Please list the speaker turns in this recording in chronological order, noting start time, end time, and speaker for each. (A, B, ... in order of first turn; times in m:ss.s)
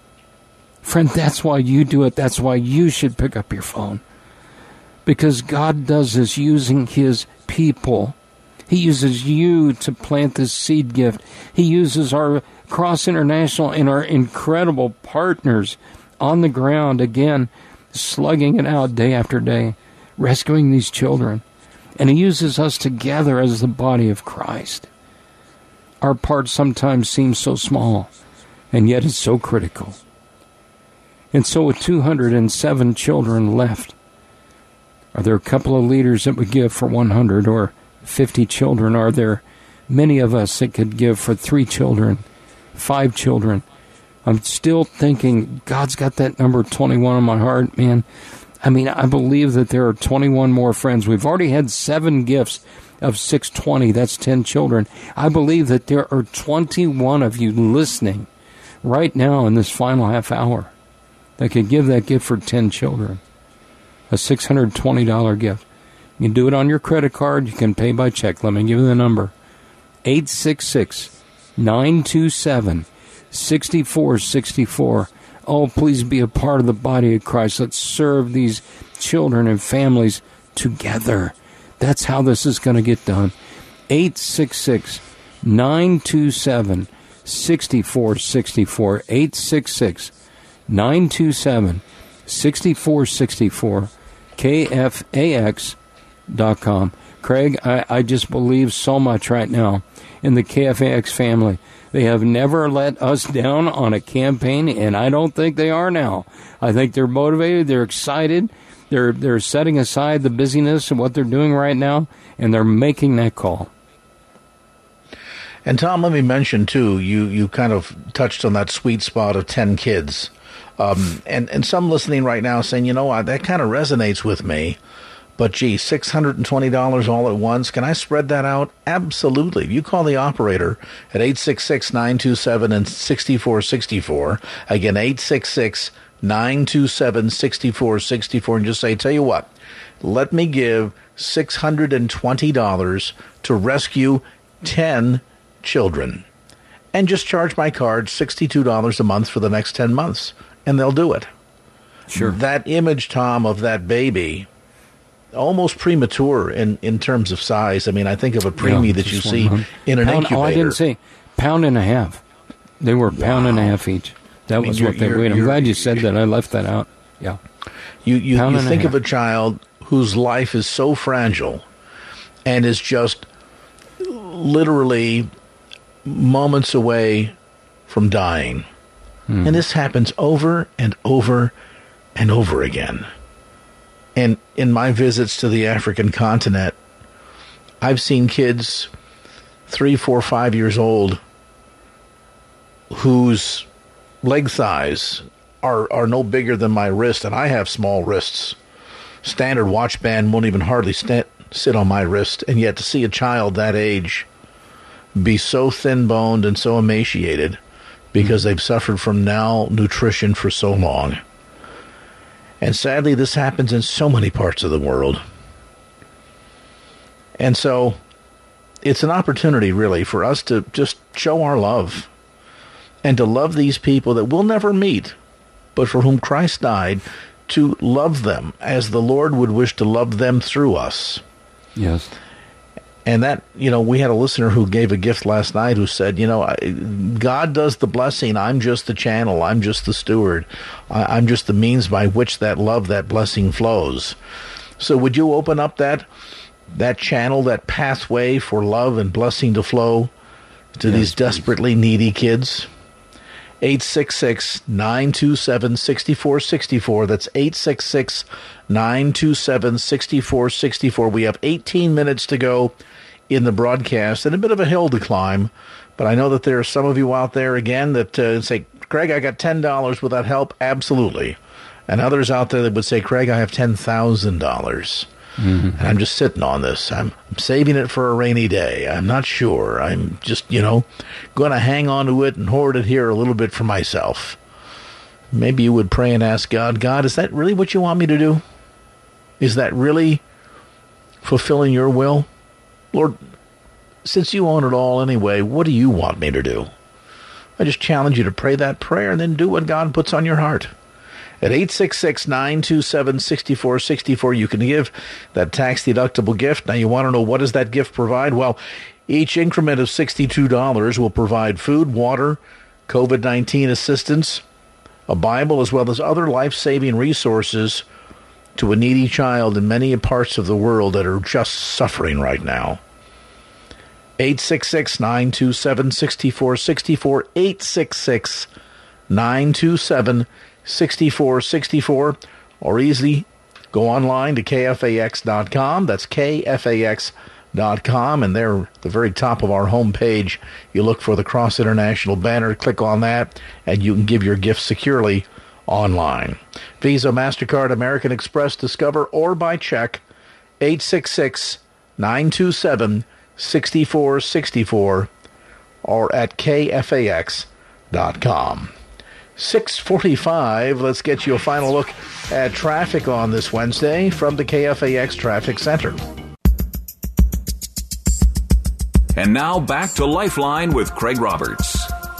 0:00.8-0:04.0 A
0:05.0-0:08.1 A
0:08.7-0:21.4 A
0:22.0-0:24.9 A
0:26.0-0:28.1 A
0:28.7-0:30.0 A
0:31.3-0:33.9 A
0:35.1-0:42.2 A
0:42.7-0:43.6 A
0:44.2-0:48.0 A
0:48.6-0:58.3 A
0:58.8-1:00.7 A
1:01.4-1:03.2 A
1:04.1-1:05.6 A
1:06.2-1:09.3 A
1:10.0-1:23.3 A
1:23.9-1:30.1 A
1:30.7-1:35.8 A
1:36.3-1:53.7 A
1:55.6-2:04.8 B
2:05.4-2:19.5 B
2:20.0-2:26.2 B
2:26.9-2:31.3 B
2:32.1-2:32.4 A
2:32.1-2:34.5 B
2:35.3-2:40.8 B
2:38.6-2:42.2 A
2:42.8-2:47.4 A
2:43.1-2:43.8 B
2:44.6-2:46.0 B
2:48.0-2:51.6 B
2:48.3-2:48.9 A
2:52.4-2:53.3 B
2:54.0-2:55.3 B
2:56.0-2:57.3 B
2:57.9-2:58.6 B
2:59.3-2:59.6 A
2:59.4-3:01.5 B
3:02.2-3:03.1 B
3:04.2-3:06.8 B
3:07.8-3:08.9 B
3:09.7-3:11.2 B
3:12.9-3:13.7 B
3:14.2-3:18.6 B
3:19.2-3:24.3 B
3:25.1-3:27.6 B
3:28.1-3:31.2 B
3:32.6-3:35.2 B
3:37.4-3:38.0 B
3:38.8-3:42.1 B
3:43.0-3:45.2 B
3:45.7-3:51.2 B
3:51.8-3:52.1 A
3:53.0-4:04.2 B
4:04.8-4:06.1 B
4:06.7-4:10.1 B
4:10.7-4:12.7 B
4:10.9-4:11.3 A
4:13.6-4:22.8 B
4:23.3-4:31.4 B
4:31.9-4:35.1 B
4:35.4-4:35.9 A
4:35.8-4:44.4 B
4:45.3-4:48.4 B
4:49.4-4:50.2 B
4:51.2-4:52.3 B
4:52.9-4:53.2 B
4:54.0-4:56.7 B
4:57.6-5:00.7 B
5:01.4-5:14.4 B
5:15.1-5:17.8 B
5:18.6-5:22.8 B
5:24.2-5:28.5 B
5:29.1-5:50.0 B
5:50.6-5:55.1 B
5:55.8-5:58.7 B
5:59.4-6:06.0 B
6:09.2-6:11.9 C